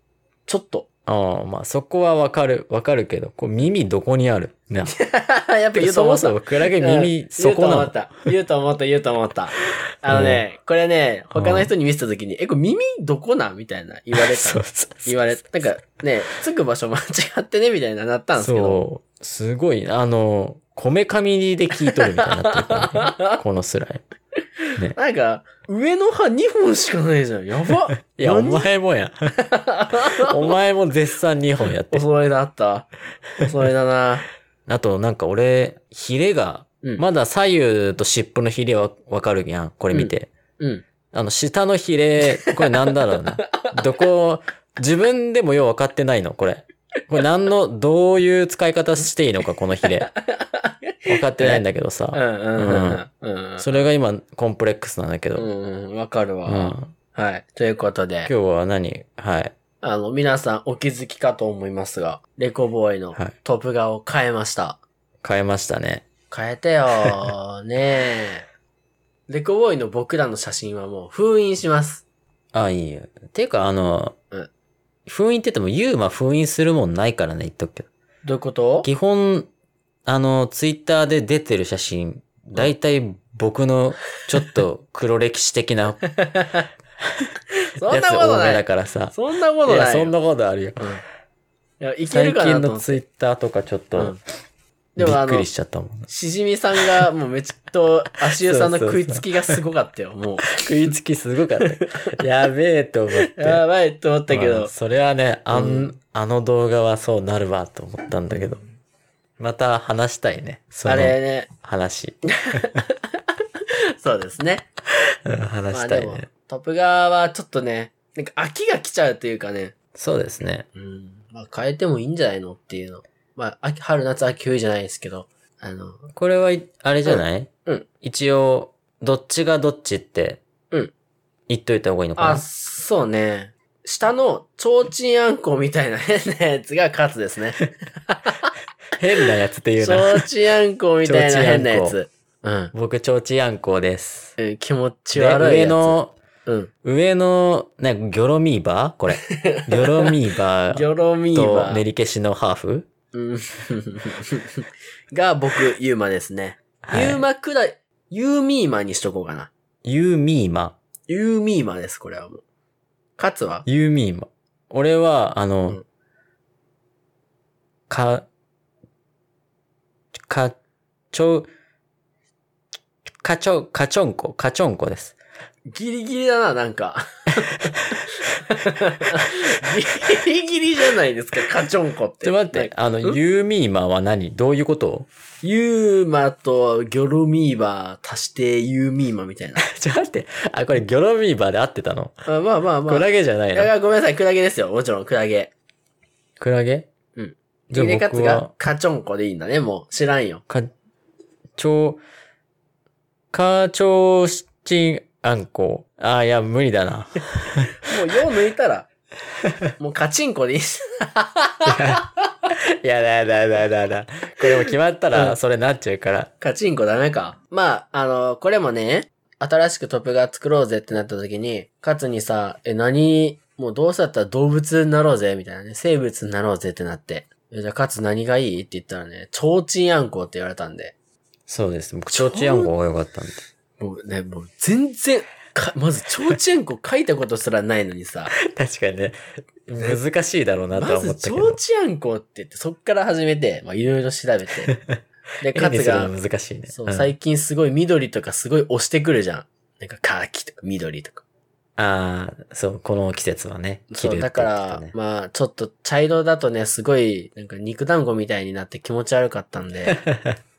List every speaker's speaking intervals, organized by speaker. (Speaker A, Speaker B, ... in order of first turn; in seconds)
Speaker A: 0.5-0.9, 4.9-18.8, 21.8-23.4, 24.9-28.6, 29.4-30.5, 31.9-32.9, 33.4-34.2, 39.9-40.8, 50.3-53.7, 55.4-58.3, 59.8-64.8, 66.3-68.5, 69.3-72.0, 78.2-78.9, 86.2-86.6, 87.7-90.1, 91.8-93.0, 95.0-95.5, 96.1-100.6, 101.7-102.0, 103.2-104.7, 105.5-105.9, 110.8-111.5, 112.3-114.7, 115.7-119.7, 120.7-126.0, 127.0-127.8, 132.2-138.5, 139.8-142.7, 144.4-146.7, 149.3-150.1, 150.7-151.8, 153.1-159.5, 161.1-162.4, 163.2-163.7, 175.7-183.2, 185.4-189.6, 192.2-195.5, 197.2-200.4, 207.8-208.9, 209.8-212.3, 216.4-230.9, 232.1-232.7, 233.8-238.3, 240.8-244.7, 245.4-246.1, 246.7-251.2, 253.9-260.0
Speaker B: 1.1-4.9, 5.7-8.0, 10.1-10.4, 11.3-11.7, 14.1-15.3, 18.4-24.0, 28.1-32.0, 34.7-40.3, 41.1-50.1, 51.0-53.0, 53.6-55.5, 56.5-56.9, 58.2-59.5, 65.2-66.1, 72.5-74.2, 75.0-77.9, 78.8-79.5, 80.0-86.0, 87.9-90.9, 92.1-94.2, 95.0-96.1, 98.4-99.5, 100.5-103.6, 104.3-108.6, 109.4-112.8, 115.2-116.3, 119.9-120.7, 126.1-127.5, 128.0-130.4, 131.5-132.4, 138.9-140.2, 141.0-142.0, 142.7-144.4, 145.1-146.2, 146.8-152.9, 156.8-157.2, 159.8-160.8, 163.7-165.8, 167.9-168.2, 170.3-170.6, 171.1-171.5, 173.2-175.2, 182.2-185.1, 189.6-192.2, 192.9-193.7, 196.4-196.9, 197.7-198.5, 201.6-202.0, 203.3-207.7, 211.7-216.3, 231.5-233.4, 238.4-241.6, 244.7-247.1, 251.8-254.9, 260.0-260.4